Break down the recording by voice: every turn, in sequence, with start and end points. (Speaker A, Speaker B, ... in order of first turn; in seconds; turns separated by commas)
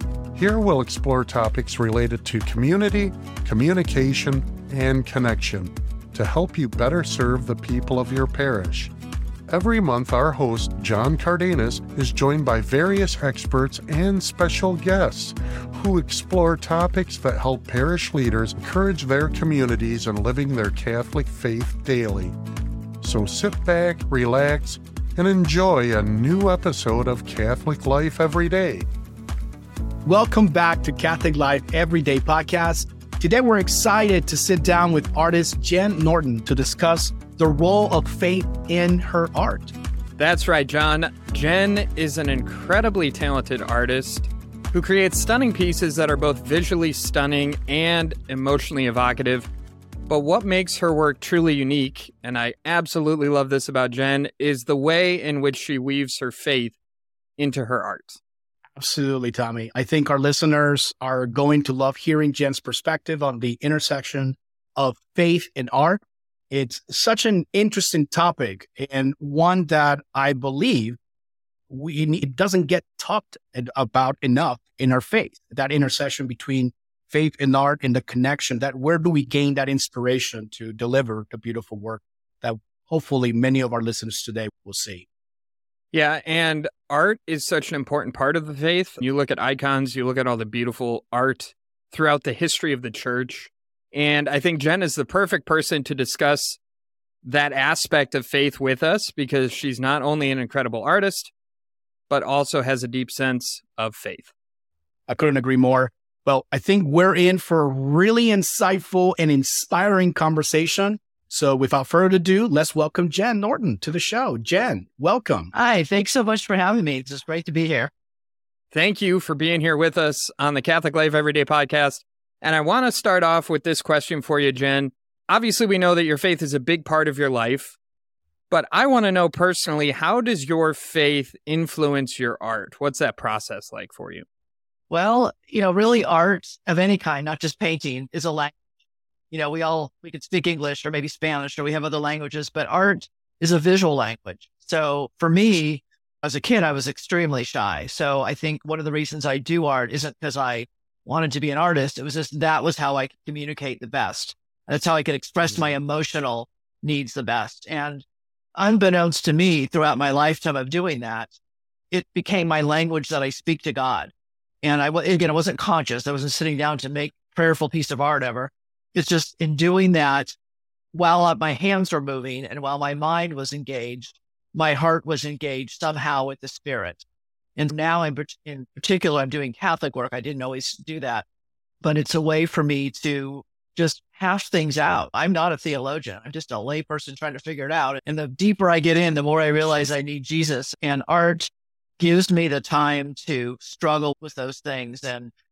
Speaker A: 0.3-8.9, Speaker A: 9.5-22.4, Speaker A: 23.0-28.9, Speaker B: 30.1-39.7, Speaker C: 40.2-49.5, Speaker C: 50.1-56.8, Speaker C: 57.4-58.2, Speaker B: 58.8-66.0, Speaker B: 66.5-71.0, Speaker B: 71.7-85.0, Speaker C: 85.9-96.6, Speaker C: 97.2-101.3, Speaker C: 102.1-104.3, Speaker B: 105.1-115.5, Speaker D: 115.5-117.9, Speaker C: 118.7-127.8, Speaker C: 128.5-134.2, Speaker D: 134.9-138.5, Speaker D: 139.3-158.0, Speaker D: 158.6-161.3, Speaker D: 161.9-170.3, Speaker D: 170.9-177.0, Speaker D: 177.6-181.2, Speaker D: 181.8-195.3